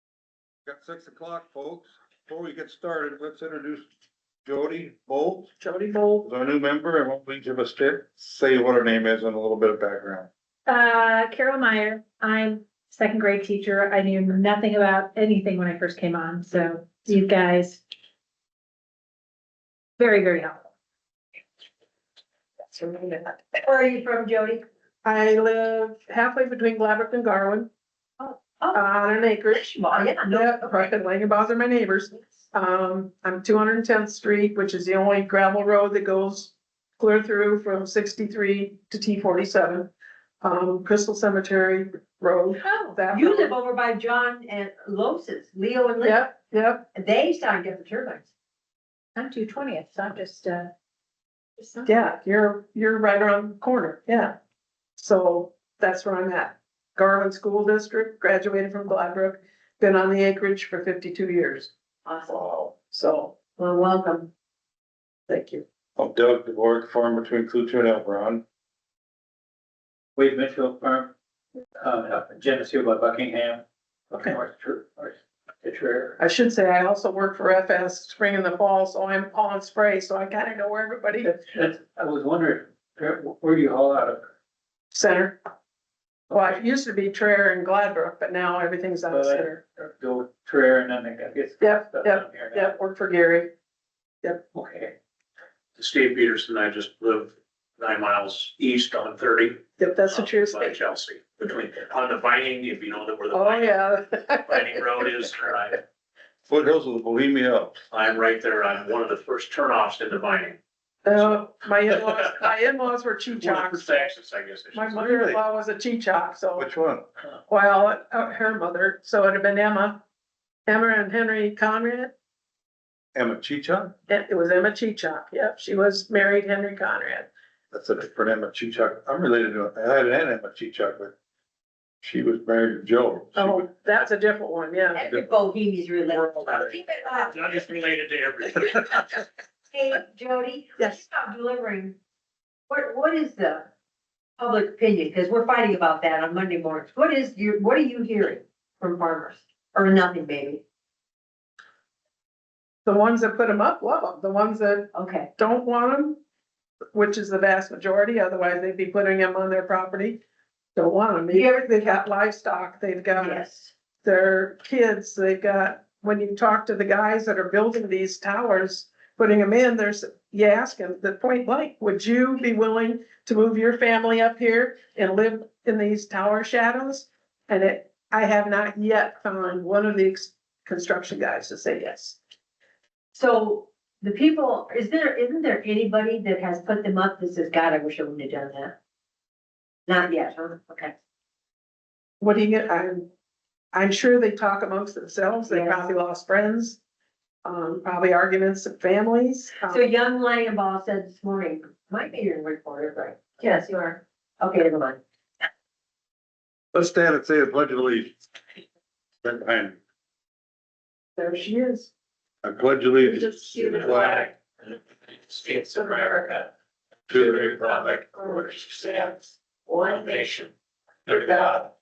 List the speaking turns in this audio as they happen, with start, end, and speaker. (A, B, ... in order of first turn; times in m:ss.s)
0:00.7-0:03.9 A
0:04.4-0:05.5 A
0:05.6-0:06.3 B
0:06.2-0:10.3 A
0:10.7-0:17.8 C
0:20.0-0:20.7 C
0:22.6-0:23.4 B
0:23.6-0:24.6 D
0:25.0-0:27.7 B
0:28.2-0:28.8 D
0:28.7-0:43.5 B
0:29.5-0:30.9 D
0:42.6-0:42.9 C
0:43.1-0:46.3 D
0:46.0-0:46.8 B
0:46.9-0:48.3 D
0:49.2-0:50.7 C
0:51.6-0:52.1 C
0:51.8-0:54.4 B
0:55.0-1:01.7 B
1:02.0-1:02.4 D
1:02.3-1:02.7 A
1:02.9-1:03.4 B
1:03.6-1:04.3 D
1:05.3-1:05.6 B
1:06.0-1:08.4 A
1:10.2-1:11.1 E
1:11.8-1:16.2 E
1:16.2-1:21.3 B
1:21.2-1:24.3 E
1:24.9-1:25.4 B
1:26.3-1:29.6 B
1:29.1-1:32.7 E
1:31.6-1:33.5 B
1:34.5-1:35.0 E
1:35.8-1:43.8 F
1:39.8-1:40.8 B
1:43.3-1:44.8 B
1:44.5-1:45.8 F
1:46.5-1:47.8 A
1:47.9-1:50.6 F
1:51.0-1:54.2 B
1:52.0-1:52.3 F
1:53.4-1:55.1 F
1:54.7-1:56.6 B
1:55.0-1:55.4 A
1:56.6-1:57.1 A
1:57.5-2:00.0 B
2:00.7-2:02.2 B
2:03.2-2:03.9 A
2:04.1-2:07.3 B
2:07.7-2:11.1 A
2:12.0-2:13.7 A
2:13.4-2:15.0 B
2:14.9-2:17.4 D
2:16.4-2:19.1 F
2:19.7-2:22.0 D
2:22.7-2:23.7 D
2:24.4-2:30.6 D
2:32.9-2:36.2 B
2:34.9-2:35.3 D
2:36.9-2:40.2 B
2:40.8-2:43.4 B
2:41.3-2:42.0 D
2:43.2-2:43.7 D
2:44.0-3:02.2 B
3:03.1-3:08.8 D
3:09.9-3:10.9 D
3:12.2-3:13.1 B
3:13.7-3:16.8 B
3:15.5-3:15.9 D
3:17.4-3:19.8 B
3:19.6-3:25.0 D
3:26.7-3:28.2 A
3:29.2-3:29.8 A
3:31.2-3:31.9 B
3:32.4-3:34.2 A
3:33.3-3:33.6 B
3:37.1-3:37.8 A